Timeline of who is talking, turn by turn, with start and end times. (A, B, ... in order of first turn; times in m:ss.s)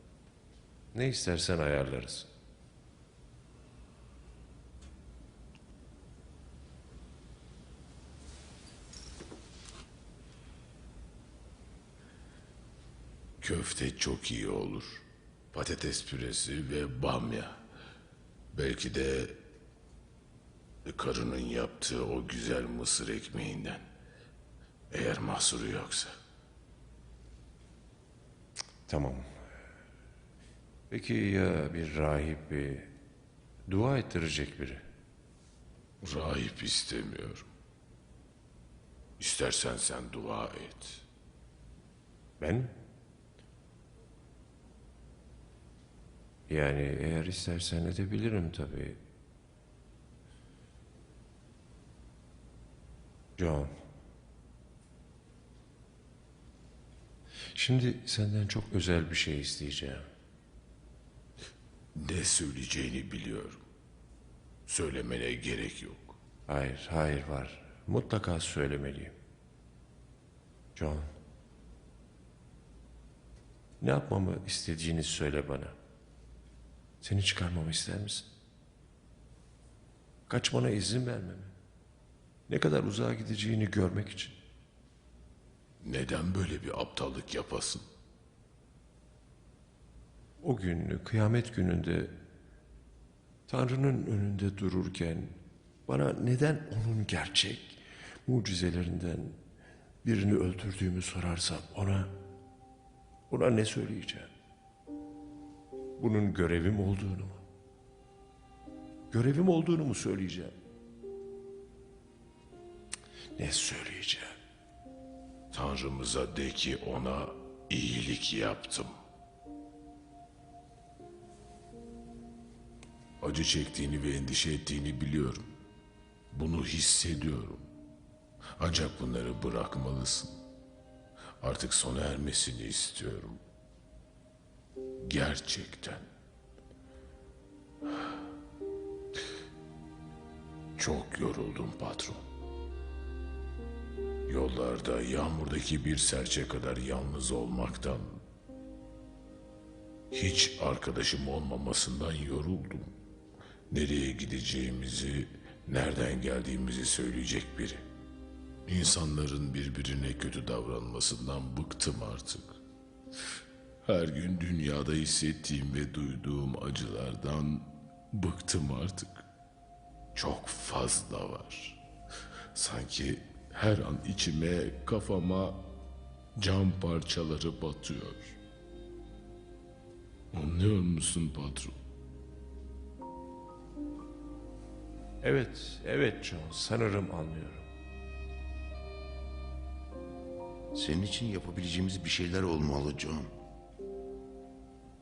0:00.9-0:02.3 A
0:13.4-0:17.6 B
0:18.5-0:19.4 B
0:20.9-0:23.9 B
0:24.9-0:26.1 B
0:28.9-0:29.3 A
0:30.9-0:32.9 A
0:33.7-0:34.8 A
0:36.0-0:37.5 B
0:39.2-0:41.0 B
0:42.4-0:42.7 A
0:46.5-0:49.0 A
0:53.4-0:53.7 A
0:57.6-1:00.0 A
1:02.0-1:03.6 B
1:04.7-1:06.2 B
1:06.5-1:09.2 A
1:10.8-1:11.1 A
1:13.8-1:15.8 A
1:17.0-1:18.3 A
1:20.3-1:21.5 A
1:22.5-1:24.4 A
1:25.8-1:27.8 B
1:30.4-1:32.1 A
1:33.5-1:35.3 A
1:35.9-1:39.4 A
1:40.0-1:42.1 A
1:43.3-1:44.3 A
1:46.0-1:47.4 A
1:49.1-1:50.5 A
1:53.4-1:54.4 A
1:55.5-1:58.9 B
2:03.2-2:05.5 B
2:06.3-2:07.7 B
2:08.6-2:10.4 B
2:11.4-2:13.4 B
2:15.0-2:16.1 B
2:20.8-2:22.2 B
2:24.3-2:28.2 B
2:30.1-2:32.9 B
2:33.7-2:37.8 B
2:38.7-2:42.6 B
2:43.8-2:49.2 B
2:50.2-2:51.8 B
2:52.5-2:55.6 B
2:56.4-2:58.4 B
3:00.3-3:01.7 B
3:05.2-3:07.7 A
3:10.7-3:13.3 C